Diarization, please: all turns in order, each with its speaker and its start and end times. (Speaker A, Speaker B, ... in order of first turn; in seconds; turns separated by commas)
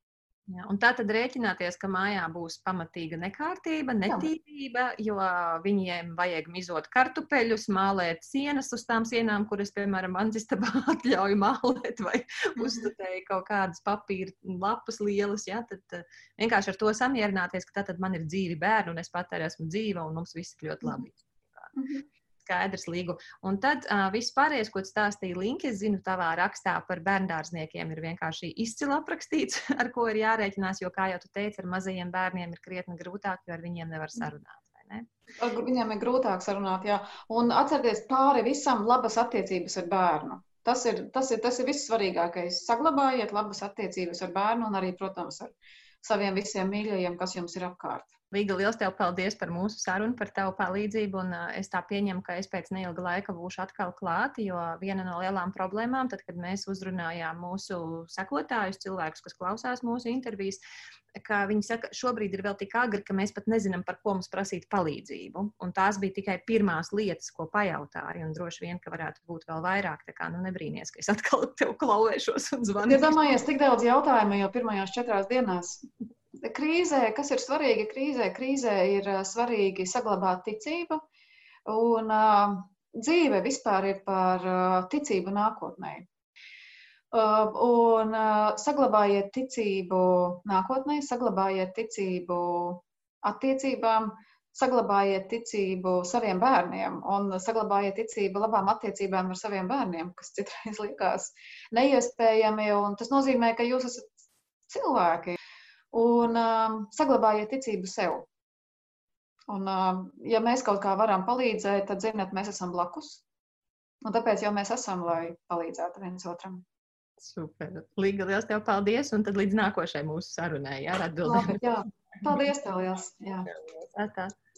Speaker A: 0.5-21.7, Speaker B: 12.6-12.9, Speaker B: 21.7-22.0, Speaker A: 22.4-35.1, Speaker B: 35.4-48.1, Speaker A: 48.3-60.6, Speaker A: 61.1-73.2, Speaker B: 72.8-75.8, Speaker B: 76.4-81.0, Speaker B: 81.7-86.0, Speaker B: 87.1-105.3, Speaker B: 105.9-108.3, Speaker B: 109.5-113.2, Speaker B: 114.0-116.6, Speaker A: 117.2-121.6, Speaker B: 121.2-123.5, Speaker A: 123.5-124.3